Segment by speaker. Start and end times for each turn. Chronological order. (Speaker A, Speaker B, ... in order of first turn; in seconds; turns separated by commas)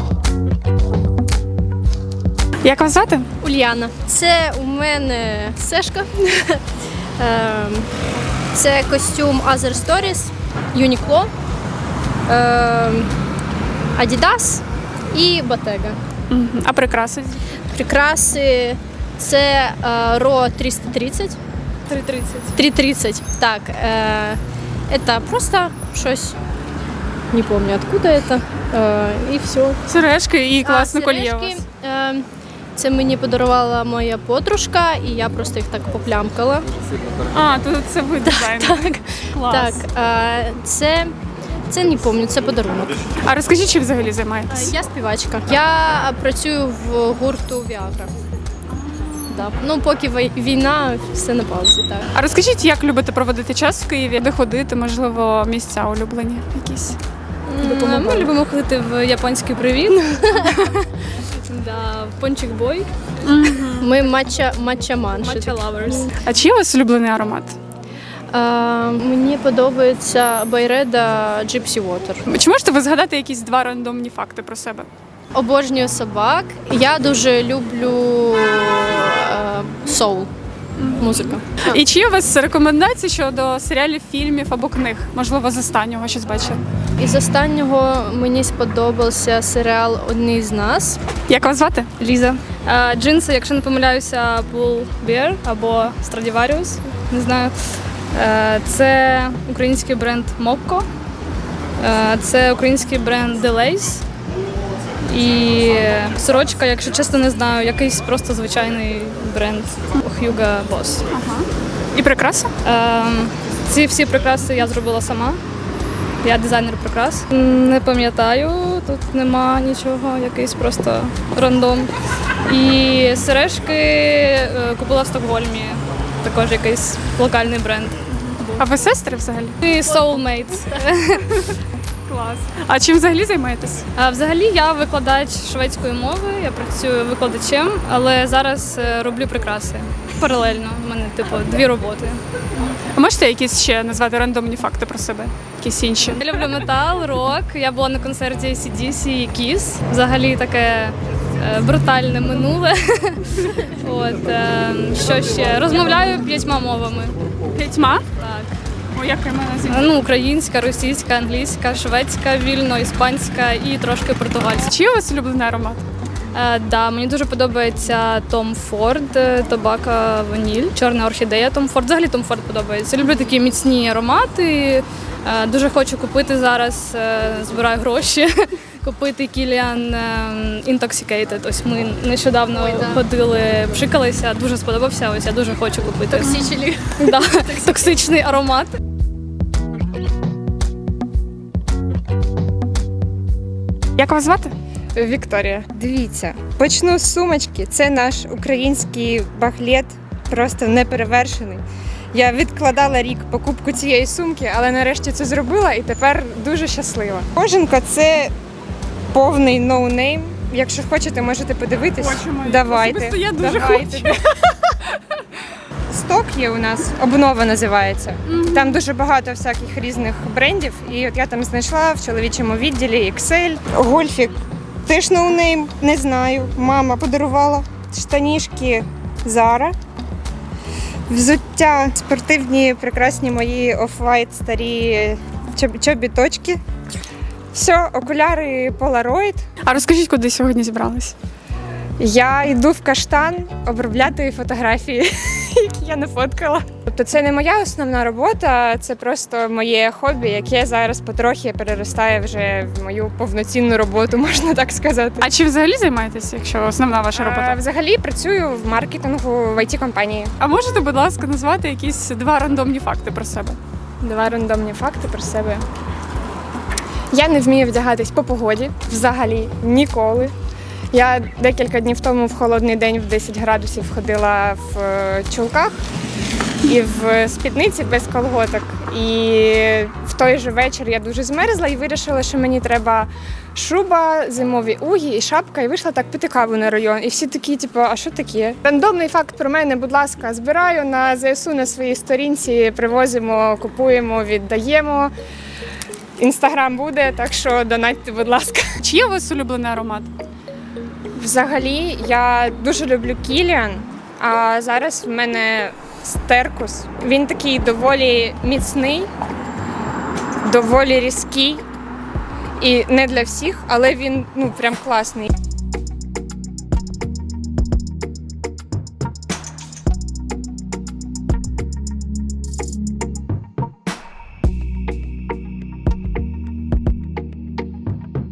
Speaker A: 2.6-3.3, Speaker B: 3.4-6.6, Speaker B: 7.2-7.9, Speaker B: 8.5-11.3, Speaker B: 12.3-13.1, Speaker B: 14.0-16.0, Speaker A: 16.3-17.4, Speaker B: 17.8-21.4, Speaker C: 21.9-22.6, Speaker B: 22.6-26.4, Speaker B: 27.3-29.8, Speaker A: 29.9-31.7, Speaker B: 30.6-36.7, Speaker A: 37.3-39.9, Speaker B: 38.2-41.1, Speaker B: 41.7-43.0, Speaker A: 43.2-44.8, Speaker B: 44.5-48.1, Speaker A: 48.9-49.4, Speaker B: 49.3-52.1, Speaker A: 52.1-57.0, Speaker A: 57.6-58.3, Speaker B: 57.7-58.2, Speaker C: 57.7-60.9, Speaker C: 61.5-62.9, Speaker A: 63.2-63.9, Speaker B: 63.8-66.1, Speaker C: 65.2-66.0, Speaker A: 66.2-67.6, Speaker B: 68.3-72.2, Speaker A: 72.3-74.9, Speaker B: 75.3-80.3, Speaker A: 80.8-86.6, Speaker B: 81.0-81.7, Speaker B: 87.0-91.0, Speaker A: 91.3-91.9, Speaker C: 92.0-97.5, Speaker C: 98.1-100.8, Speaker C: 101.8-104.0, Speaker C: 105.1-111.0, Speaker A: 111.1-112.5, Speaker C: 112.6-115.4, Speaker C: 116.2-121.9, Speaker C: 122.5-128.0, Speaker A: 128.5-129.6, Speaker C: 129.6-131.2, Speaker B: 129.9-130.2, Speaker A: 132.1-133.9, Speaker C: 133.9-142.2, Speaker A: 142.7-146.2, Speaker C: 146.1-153.2, Speaker C: 153.8-157.1, Speaker A: 157.5-158.2, Speaker C: 158.2-158.5, Speaker A: 158.9-160.0, Speaker C: 159.7-164.6, Speaker A: 164.6-165.8, Speaker C: 166.3-178.3, Speaker C: 178.8-186.4, Speaker B: 182.6-183.0, Speaker B: 186.2-186.9, Speaker C: 187.0-188.8, Speaker B: 187.5-187.8, Speaker A: 194.0-194.5, Speaker D: 194.9-208.3, Speaker D: 209.1-214.2, Speaker A: 212.0-214.1, Speaker D: 215.9-229.8, Speaker A: 218.2-218.8, Speaker D: 231.1-236.6, Speaker D: 237.5-239.4, Speaker A: 239.6-241.1, Speaker D: 242.0-255.3, Speaker A: 255.2-257.6, Speaker D: 257.1-260.3, Speaker A: 260.4-263.6, Speaker D: 264.0-265.6, Speaker D: 267.1-270.3, Speaker D: 270.9-275.8, Speaker D: 276.6-295.1, Speaker D: 296.2-298.7, Speaker A: 298.8-300.1, Speaker D: 301.1-309.1, Speaker D: 310.4-311.6, Speaker D: 312.6-315.3